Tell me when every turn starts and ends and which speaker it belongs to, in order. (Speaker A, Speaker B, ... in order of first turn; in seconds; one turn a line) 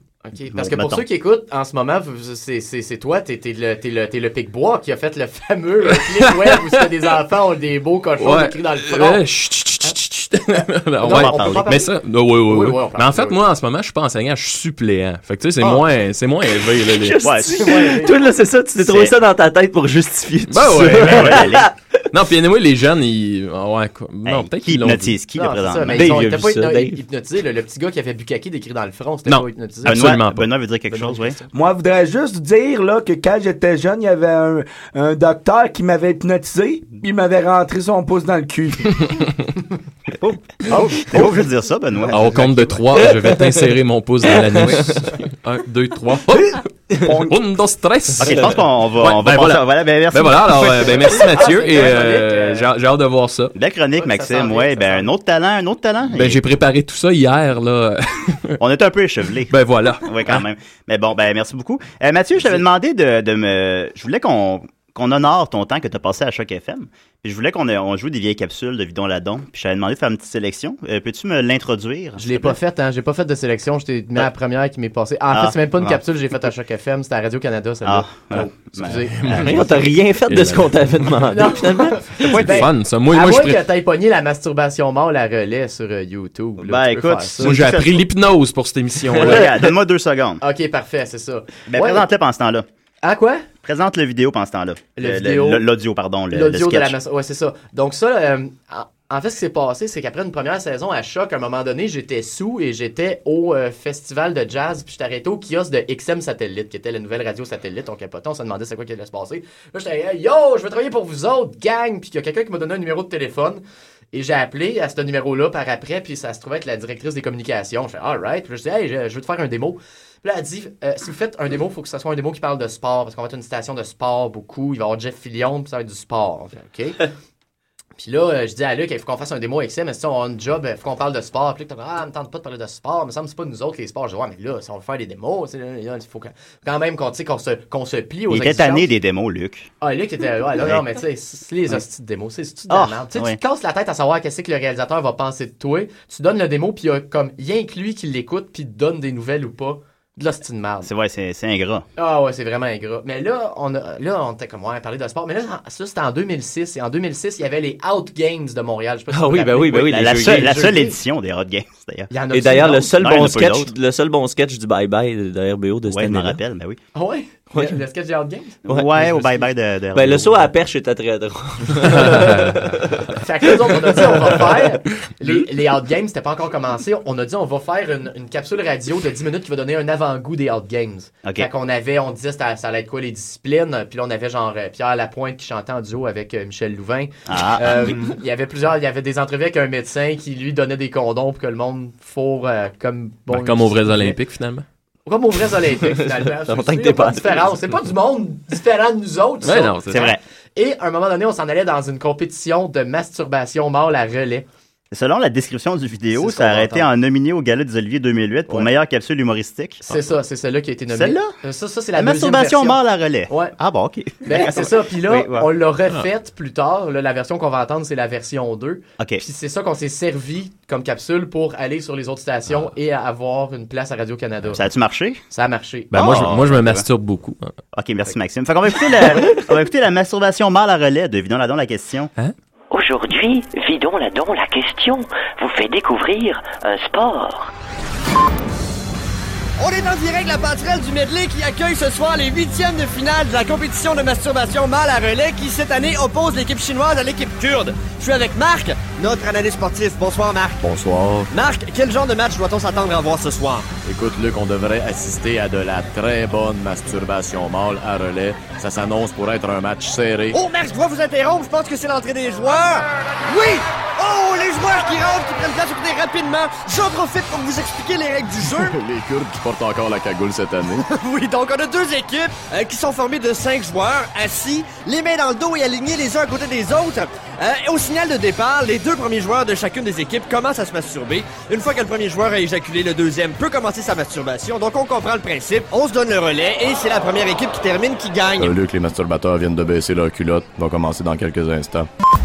Speaker A: 0.2-9.2
Speaker B: 0.5-1.0
Speaker C: 6.2-6.7
Speaker C: 8.2-17.3
Speaker A: 11.0-13.4
Speaker B: 11.0-11.7
Speaker D: 16.9-21.8
Speaker B: 17.2-18.1
Speaker A: 17.5-18.2
Speaker B: 18.8-19.1
Speaker C: 20.5-21.6
Speaker B: 20.7-21.7
Speaker C: 22.1-25.1
Speaker B: 24.2-26.3
Speaker A: 25.4-30.1
Speaker D: 25.9-27.0
Speaker C: 29.2-30.5
Speaker B: 29.8-31.4
Speaker A: 30.9-31.5
Speaker E: 31.5-39.1
Speaker B: 40.7-43.0
Speaker A: 40.7-41.0
Speaker C: 42.1-53.5
Speaker D: 43.1-43.5
Speaker E: 47.0-47.4
Speaker B: 48.2-51.4
Speaker A: 51.0-52.7
Speaker B: 53.5-56.4
Speaker A: 54.0-55.1
Speaker C: 56.1-58.6
Speaker B: 58.6-72.5
Speaker C: 59.5-60.5
Speaker A: 72.2-79.5
Speaker B: 75.3-76.0
Speaker B: 77.8-79.7
Speaker C: 79.1-81.2
Speaker D: 79.5-82.2
Speaker A: 81.3-87.5
Speaker C: 82.2-83.6
Speaker B: 86.6-88.1
Speaker C: 87.4-89.5
Speaker B: 89.1-90.4
Speaker A: 90.4-92.0
Speaker B: 91.7-92.7
Speaker A: 93.0-93.5
Speaker B: 93.6-97.0
Speaker A: 95.0-95.7
Speaker A: 96.3-127.1
Speaker A: 128.0-138.9
Speaker B: 138.3-139.7
Speaker A: 139.8-150.9
Speaker B: 140.6-140.8
Speaker B: 142.7-143.4
Speaker B: 150.8-151.8
Speaker A: 152.0-160.9
Speaker D: 159.1-160.7
Speaker B: 159.7-162.1
Speaker A: 162.1-163.0
Speaker D: 162.3-166.4
Speaker B: 163.0-163.7
Speaker B: 165.9-166.8
Speaker A: 166.9-168.6
Speaker D: 168.7-169.2
Speaker B: 168.7-170.5
Speaker D: 169.9-173.0
Speaker C: 171.9-172.8
Speaker A: 173.2-194.2
Speaker B: 181.2-181.5
Speaker B: 187.3-188.0
Speaker C: 193.3-194.6
Speaker A: 195.1-204.4
Speaker D: 196.4-197.6
Speaker C: 199.4-200.1
Speaker B: 199.9-200.2
Speaker B: 204.9-210.0
Speaker A: 206.1-206.9
Speaker A: 209.9-213.5
Speaker B: 210.9-211.3
Speaker B: 211.9-215.5
Speaker A: 214.2-224.6
Speaker B: 224.5-225.2
Speaker A: 225.3-226.2
Speaker C: 225.9-227.5
Speaker B: 225.9-226.9
Speaker B: 227.7-232.1
Speaker F: 232.7-237.5
Speaker G: 239.6-250.7
Speaker H: 250.6-251.3
Speaker G: 251.3-253.7
Speaker H: 253.8-260.4
Speaker G: 260.3-268.8
Speaker H: 268.5-270.8
Speaker G: 270.7-288.5
Speaker H: 288.4-291.9